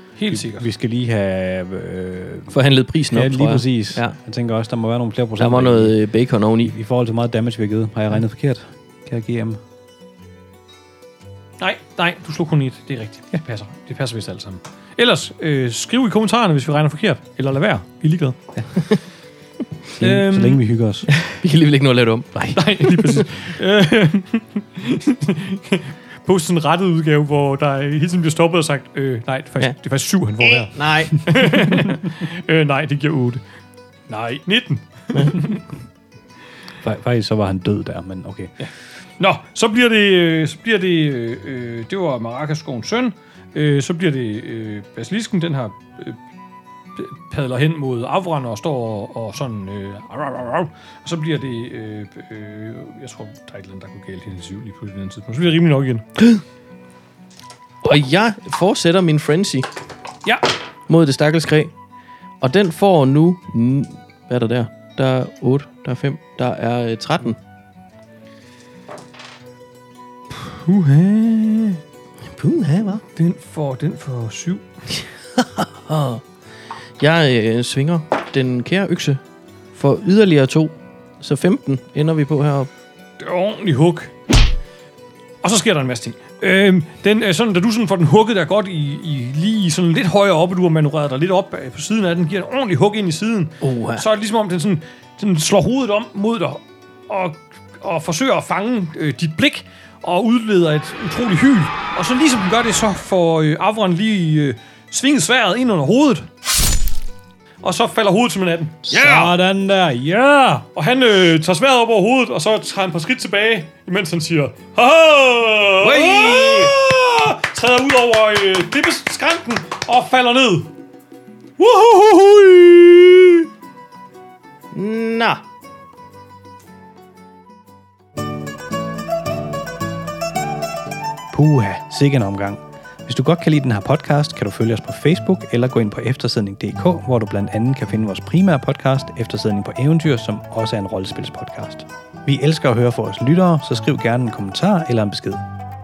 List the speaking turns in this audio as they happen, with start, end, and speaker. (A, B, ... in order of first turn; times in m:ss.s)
0:00.2-0:00.6 A
0:00.3-0:02.5 B
0:02.5-0:04.2 C
0:03.1-0:06.0 B
0:05.4-0:06.7 C
0:06.6-0:09.6 B
0:11.6-0:18.4 A
0:20.0-0:20.6 A
0:20.0-0:21.1 B
0:21.2-0:23.2 C
0:22.5-0:33.4 A
0:30.4-0:31.7 C
0:34.1-0:35.6 A
0:36.8-0:38.5 B
0:38.6-0:46.2 A
0:47.0-0:56.0 A
0:57.8-0:59.7 C
1:00.9-1:01.7 C
1:02.4-1:07.4 C
1:10.3-1:11.8 A
1:12.3-1:13.0 C
1:13.1-1:14.6 A
1:15.4-1:16.2 C
1:17.0-1:19.2 C
1:19.7-1:22.7 C
1:23.2-1:24.1 A
1:25.4-1:46.3 A
1:33.6-1:34.0 C
1:47.6-1:49.3 A
1:48.9-1:50.7 B
1:50.7-2:00.7 A
1:55.8-1:56.7 C
2:01.6-2:03.4 A
2:04.7-2:05.4 C
2:11.3-2:25.4 B